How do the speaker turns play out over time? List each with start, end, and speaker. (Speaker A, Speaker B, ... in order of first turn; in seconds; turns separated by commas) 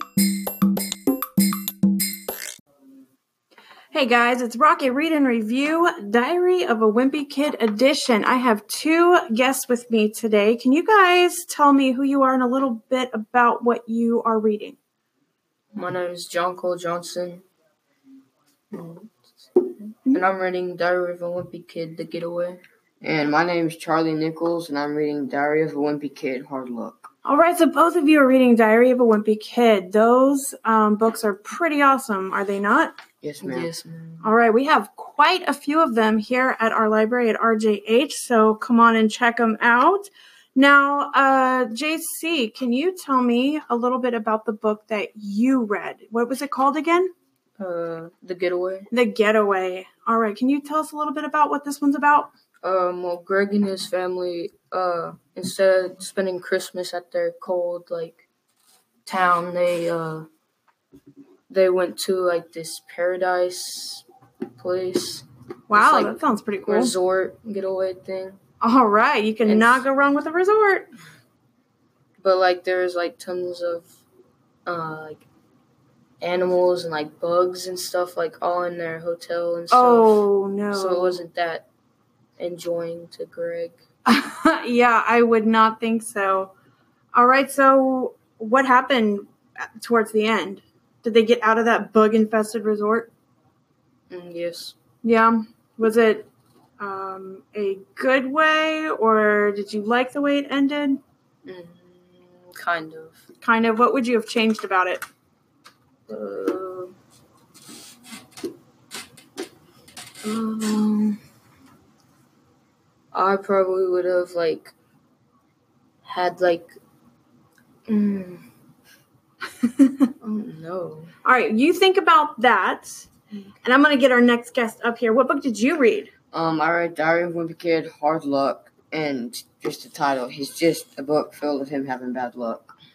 Speaker A: 3.9-14.8, Speaker B: 15.7-17.4, Speaker B: 18.7-22.6, Speaker C: 23.0-27.1, Speaker A: 27.2-33.0, Speaker C: 33.2-33.7, Speaker B: 33.4-34.3, Speaker A: 34.2-47.1, Speaker B: 47.6-48.9, Speaker A: 48.9-52.3, Speaker B: 52.6-58.2, Speaker B: 59.0-60.3, Speaker B: 61.5-64.0, Speaker B: 64.6-68.4, Speaker A: 65.7-66.9, Speaker A: 68.6-70.9, Speaker B: 69.4-69.8, Speaker B: 72.2-73.9, Speaker B: 74.7-75.2, Speaker B: 76.2-81.7, Speaker A: 79.7-81.2, Speaker B: 82.4-83.8, Speaker A: 84.1-86.5, Speaker A: 87.1-89.3, Speaker A: 89.8-93.1, Speaker B: 94.1-94.8, Speaker A: 95.0-96.3, Speaker A: 96.8-101.0, Speaker B: 101.4-103.2, Speaker A: 103.4-105.0, Speaker B: 106.1-106.9, Speaker B: 110.2-111.2, Speaker B: 113.1-114.7, Speaker B: 116.0-116.7, Speaker B: 117.9-118.4, Speaker A: 119.6-119.9, Speaker B: 120.2-121.1, Speaker A: 121.2-123.1, Speaker A: 123.6-126.1, Speaker C: 126.3-132.7